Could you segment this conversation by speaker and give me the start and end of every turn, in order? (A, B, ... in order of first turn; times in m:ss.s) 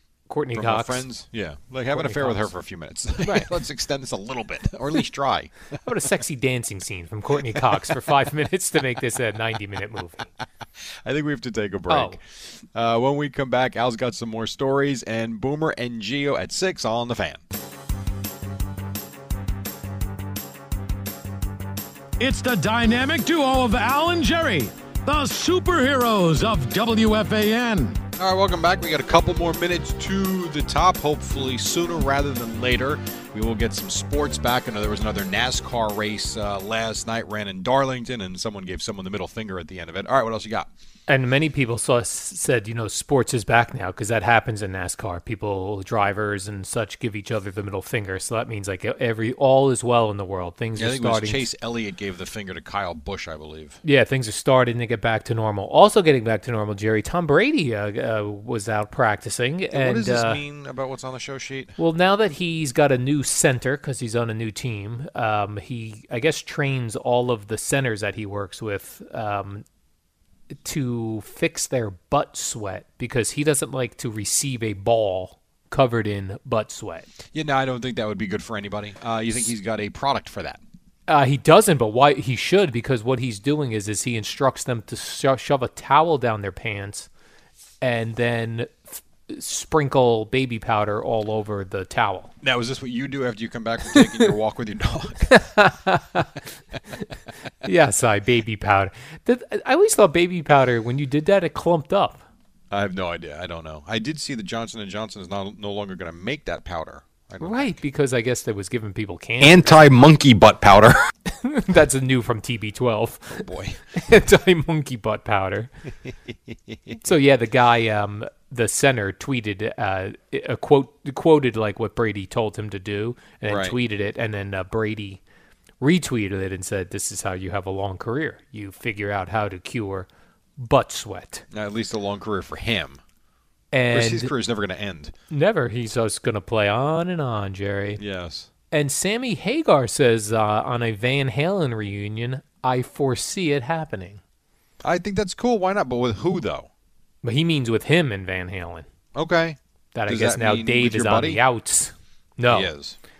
0:00.3-0:01.1 A
0:00.5-0:05.5 B
0:01.9-0:02.6 A
0:03.2-0:03.5 A
0:05.8-0:10.3 A
0:07.4-0:08.0 B
0:11.0-0:17.4 B
0:11.9-0:12.2 A
0:22.2-0:28.0 C
0:28.2-0:40.7 B
0:41.1-0:51.5 A
0:50.8-0:53.8 B
0:53.8-1:00.4 A
0:59.7-1:01.8 B
1:01.8-1:09.6 A
1:10.6-1:17.1 A
1:17.3-1:20.6 B
1:21.1-1:27.1 A
1:27.8-1:32.3 A
1:32.4-1:35.3 B
1:35.3-1:36.4 A
1:37.6-1:42.2 A
1:42.7-1:47.8 B
1:47.4-1:49.8 A
1:49.4-1:51.1 B
1:51.3-1:55.7 A
1:53.4-1:53.8 B
1:56.5-1:57.0 B
1:57.0-2:05.2 A
2:03.5-2:03.8 B
2:05.8-2:10.1 A
2:10.6-2:11.4 A
2:11.5-2:13.0 B
2:13.7-2:14.3 A
2:13.9-2:15.1 B
2:15.3-2:18.0 A
2:18.0-2:18.5 B
2:18.7-2:24.2 A
2:24.8-2:26.7 B
2:27.2-2:28.9 A
2:29.2-2:31.4 B
2:29.9-2:32.7 A
2:32.5-2:33.0 B